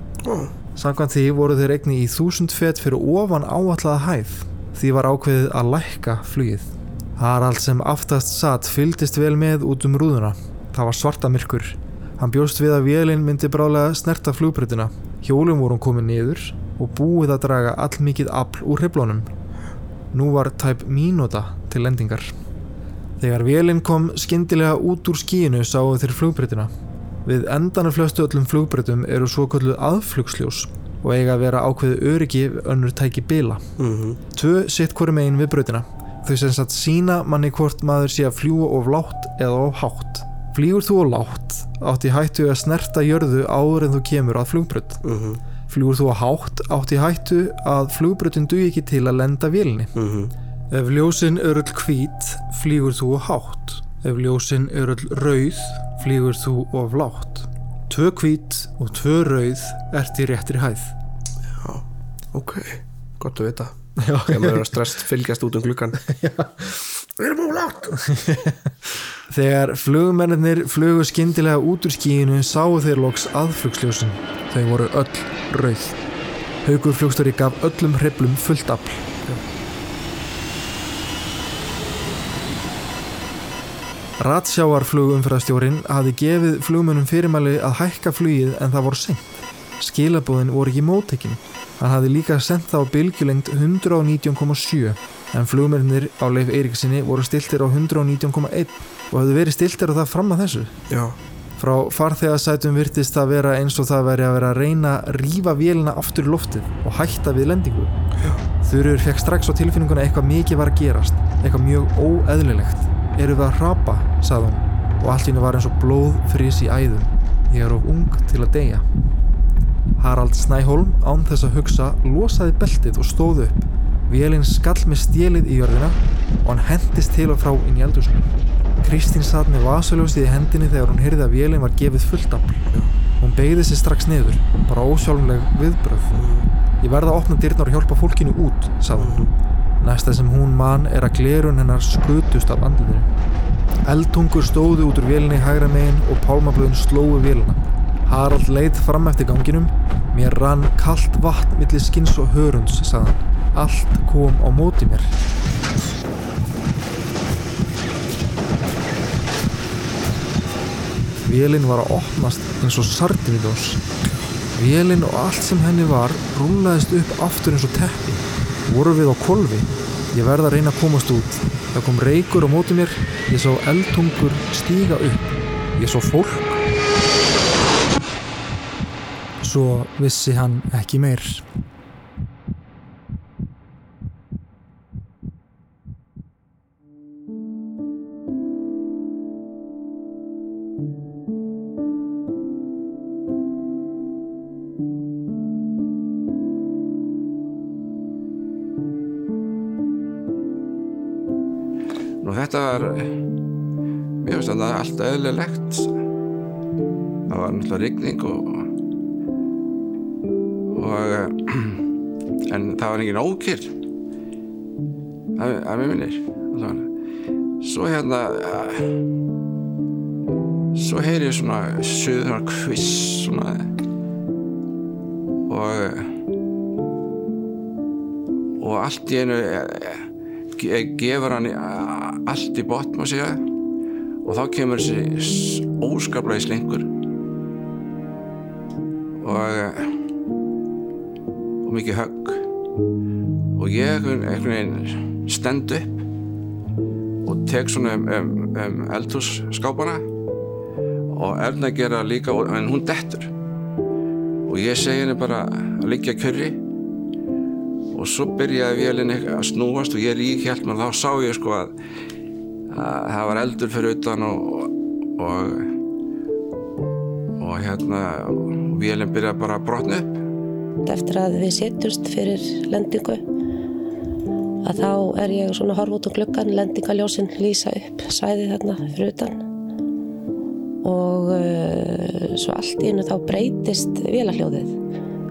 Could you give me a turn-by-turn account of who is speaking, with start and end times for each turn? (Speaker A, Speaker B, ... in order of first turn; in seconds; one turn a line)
Speaker A: 0.2-0.5
Speaker B: 0.7-19.3
Speaker B: 20.1-22.3
Speaker B: 23.2-26.7
Speaker B: 27.2-33.7
Speaker A: 33.8-34.2
Speaker B: 34.3-45.0
Speaker A: 45.0-45.4
Speaker B: 45.7-49.9
Speaker A: 49.9-50.3
Speaker B: 50.7-60.9
Speaker A: 61.6-66.0
Speaker B: 64.0-64.8
Speaker B: 66.0-66.7
Speaker A: 67.2-68.0
Speaker B: 68.0-68.5
Speaker B: 69.3-76.0
Speaker B: 76.6-79.1
Speaker B: 84.2-89.2
Speaker B: 89.8-100.7
Speaker A: 100.9-101.2
Speaker B: 101.6-107.9
Speaker B: 108.6-118.8
Speaker B: 120.0-132.6
Speaker B: 133.2-136.2
Speaker A: 136.1-136.5
Speaker B: 136.8-139.2
Speaker A: 138.9-139.3
Speaker B: 139.8-143.1
Speaker B: 143.8-155.1
Speaker B: 161.2-163.8
Speaker B: 164.5-176.6
Speaker B: 179.4-181.4
Speaker C: 202.2-203.2
Speaker C: 204.2-205.9
Speaker C: 207.3-208.7
Speaker C: 210.7-211.8
Speaker C: 212.5-213.7
Speaker C: 215.3-216.9
Speaker C: 217.6-219.0
Speaker C: 220.7-223.7
Speaker C: 225.5-226.1
Speaker C: 228.6-233.4
Speaker C: 234.2-236.9
Speaker C: 239.2-239.9
Speaker C: 241.6-242.4
Speaker C: 243.6-246.0
Speaker C: 247.2-250.1
Speaker C: 251.1-253.3
Speaker C: 254.4-256.6
Speaker C: 257.9-261.7
Speaker C: 262.7-265.7
Speaker C: 267.4-270.1
Speaker D: 270.8-273.2
Speaker D: 274.6-279.4
Speaker D: 280.8-284.8